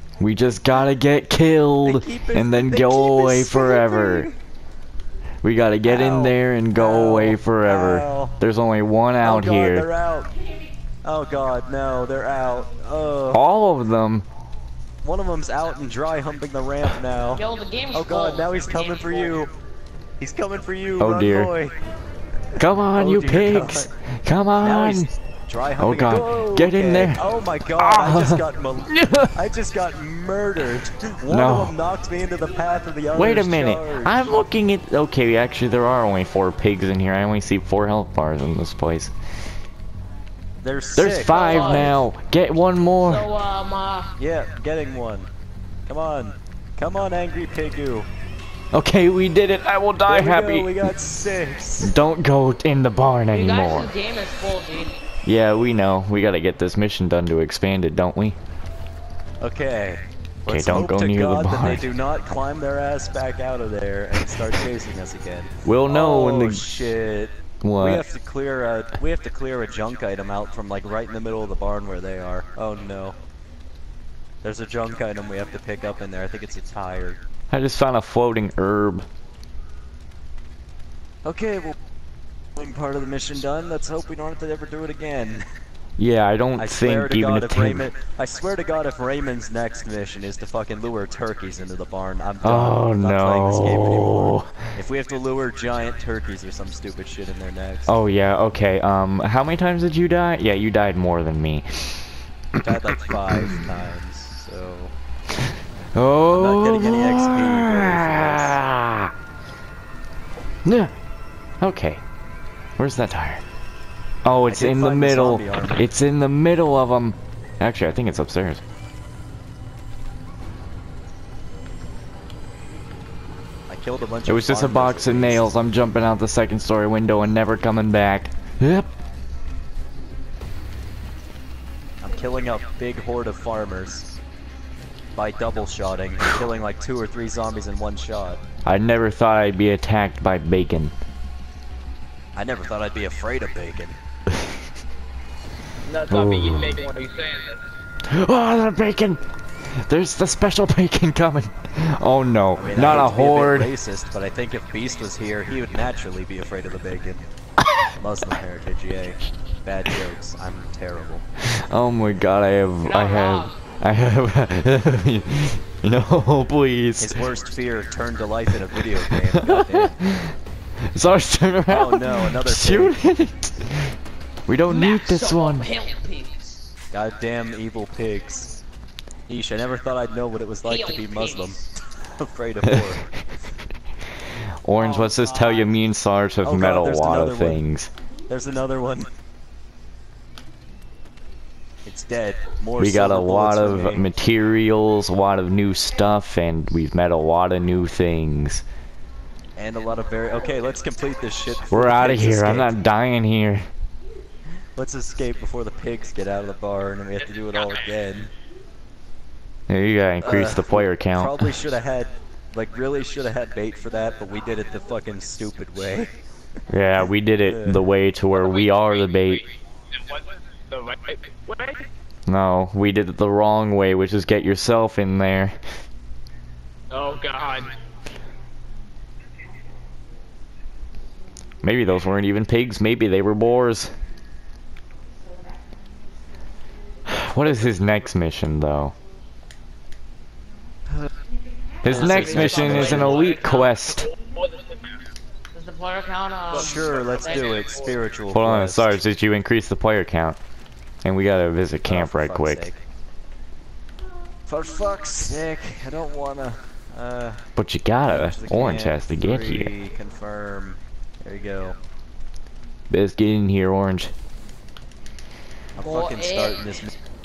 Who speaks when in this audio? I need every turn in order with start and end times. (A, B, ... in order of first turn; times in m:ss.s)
0:00.2-0:04.3 A
0:01.8-0:04.4 B
0:05.4-0:09.9 A
0:05.8-0:08.4 B
0:09.2-0:10.4 B
0:11.0-0:13.4 B
0:13.3-0:14.3 A
0:15.0-0:19.6 B
0:17.3-0:19.4 C
0:20.2-0:21.8 B
0:21.0-0:21.5 A
0:22.6-0:25.1 A
0:23.0-0:23.9 B
0:24.6-0:34.4 B
0:25.8-0:27.2 A
0:27.8-0:29.4 A
0:31.3-0:31.8 A
0:33.1-0:39.1 A
0:40.6-0:42.0 B
0:41.0-0:43.2 A
0:41.3-0:41.9 C
0:43.0-0:44.1 C
0:44.2-0:45.3 B
0:45.9-0:48.1 B
0:48.7-0:50.9 A
0:50.1-0:51.9 B
0:51.8-0:53.9 A
0:53.3-0:55.0 C
0:55.3-0:58.4 A
0:59.4-1:13.2 B
1:00.5-1:01.9 A
1:05.6-1:06.7 A
1:07.6-1:08.0 A
1:14.4-1:17.2 B
1:17.5-1:19.1 A
1:21.2-1:21.8 B
1:22.6-1:25.5 B
1:26.0-1:27.9 A
1:26.6-1:37.9 B
1:32.4-1:34.5 A
1:37.9-1:42.0 A
1:42.6-1:44.9 B
1:46.0-1:49.1 A
1:46.3-1:48.6 B
1:50.6-1:50.9 A
1:51.6-1:52.0 A
1:52.8-1:53.4 A
1:54.2-1:58.6 A
1:54.5-1:55.8 B
2:03.7-2:05.5 B
2:04.3-2:08.9 A
2:12.0-2:14.2 B
2:15.2-2:18.4 B
2:18.6-2:20.9 A
2:22.4-2:24.0 B
2:25.8-2:27.6 D
2:26.1-2:26.8 A
2:28.1-2:33.7 A
2:32.6-2:37.2 B
2:38.0-2:41.2 B
2:41.4-2:47.2 A
2:42.8-2:43.6 C
2:47.0-2:50.0 B
2:48.8-2:50.4 A
2:50.9-2:54.0 A
2:51.7-2:53.0 B
2:54.5-2:55.7 A
2:54.7-2:56.7 C
2:56.9-2:58.6 B
2:59.3-3:03.0 B
3:00.6-3:01.7 C
3:02.7-3:03.0 A
3:04.6-3:07.9 A
3:04.8-3:05.8 C
3:06.4-3:07.6 B
3:08.3-3:09.1 B
3:11.9-3:14.1 B
3:12.8-3:18.6 A
3:19.6-3:22.8 B
3:21.7-3:23.7 A
3:24.8-3:28.3 B
3:29.7-3:31.6 A
3:30.2-3:36.1 B
3:36.7-3:39.4 A
3:37.5-3:37.8 B
3:38.3-3:41.9 D
3:42.3-3:45.6 A
3:46.9-3:47.7 D
3:51.6-3:53.9 A
3:57.1-3:59.0 A
4:01.8-4:04.1 A
4:01.9-4:03.3 B
4:01.9-4:03.7 C
4:02.9-4:05.0 D
4:05.5-4:07.9 C
4:06.5-4:08.0 D
4:06.5-4:09.0 B
4:08.3-4:10.4 A
4:11.0-4:12.6 A
4:11.8-4:12.8 B
4:14.5-4:17.4 B
4:17.6-4:19.7 A
4:18.0-4:21.8 B
4:22.9-4:24.1 A
4:25.8-4:26.9 B
4:25.8-4:26.9 C